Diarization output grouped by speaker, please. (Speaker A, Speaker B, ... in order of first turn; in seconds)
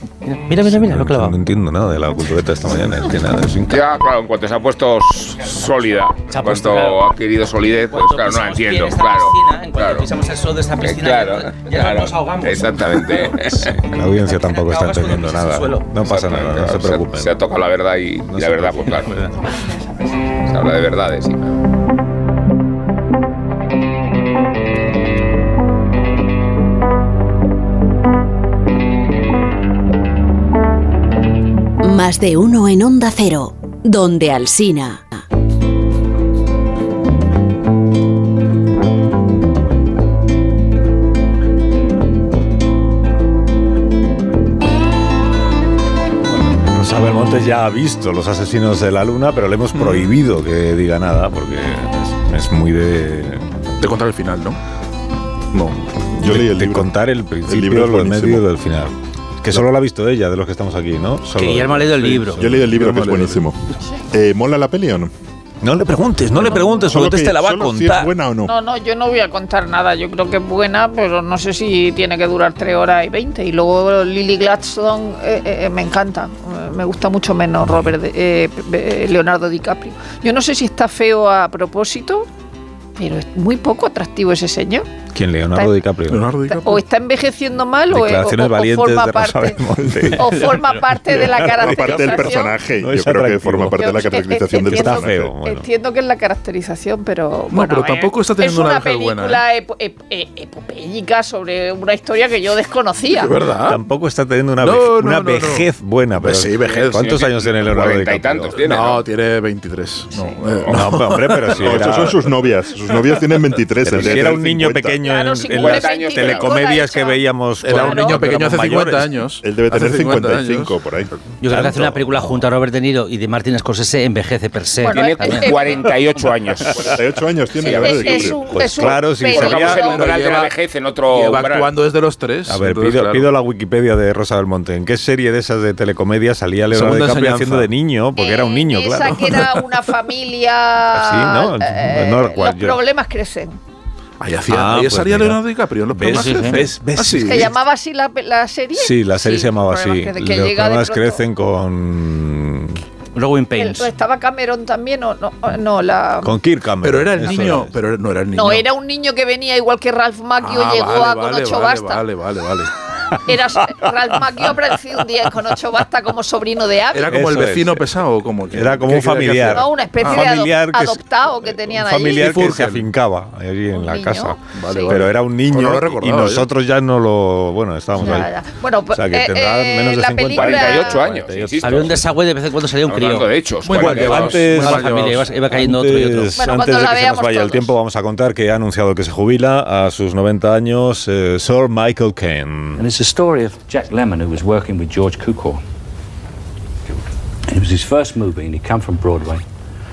Speaker A: 0.2-1.4, 6.3-7.1, 7.8-13.3, 14.2-15.9, 61.3-62.4, 121.4-125.5, 146.1-146.6, 153.1-153.9, 181.6-183.3, 183.8-186.3
Speaker B: 0.6-3.9, 13.5-17.4, 18.3-19.3, 46.2-53.5, 56.2-62.7, 65.6-68.1, 77.7-77.9, 85.1-86.3, 87.9-93.9, 94.6-95.7, 103.7-108.6, 110.7-112.3, 113.8-119.1, 121.5-122.4, 128.5-129.8, 132.5-139.5, 140.9-142.8, 144.5-147.5, 148.7-152.8, 156.2-157.7, 167.1-167.9, 168.5-178.3, 178.9-182.0, 183.7-192.8
Speaker C: 3.7-10.1, 10.8-13.7, 16.0-19.2, 20.4-21.6, 106.9-109.0, 115.5-116.5, 124.9-127.0, 127.6-128.4, 129.2-131.7, 180.3-182.0, 182.8-184.5
Speaker D: 31.8-35.2
Speaker E: 53.8-54.6, 55.5-55.8, 62.7-63.4, 86.1-86.8, 97.5-99.4, 103.1-103.8, 104.6-107.2, 108.6-111.6, 117.6-120.7, 129.3-130.5, 131.1-133.3, 136.7-137.7, 139.2-139.4, 144.2-147.5, 156.8-158.7, 160.4-162.7, 166.9-170.3, 172.0-172.9, 174.5-176.5, 183.6-185.3
Speaker F: 56.1-56.9, 57.5-58.4, 62.4-63.6, 64.1-65.1, 66.4-68.5, 91.5-95.3, 111.5-115.0, 119.4-121.2, 126.7-128.5
Speaker G: 68.5-82.3, 83.0-84.8, 86.5-92.5, 93.7-103.3, 115.0-118.3, 124.8-125.8, 127.6-130.0, 138.2-143.6, 147.2-151.2, 153.6-156.3, 158.3-162.0, 163.2-167.1, 169.4-172.4, 173.7-174.9, 178.0-181.0, 186.4-187.7
Speaker H: 192.8-195.6, 196.9-199.4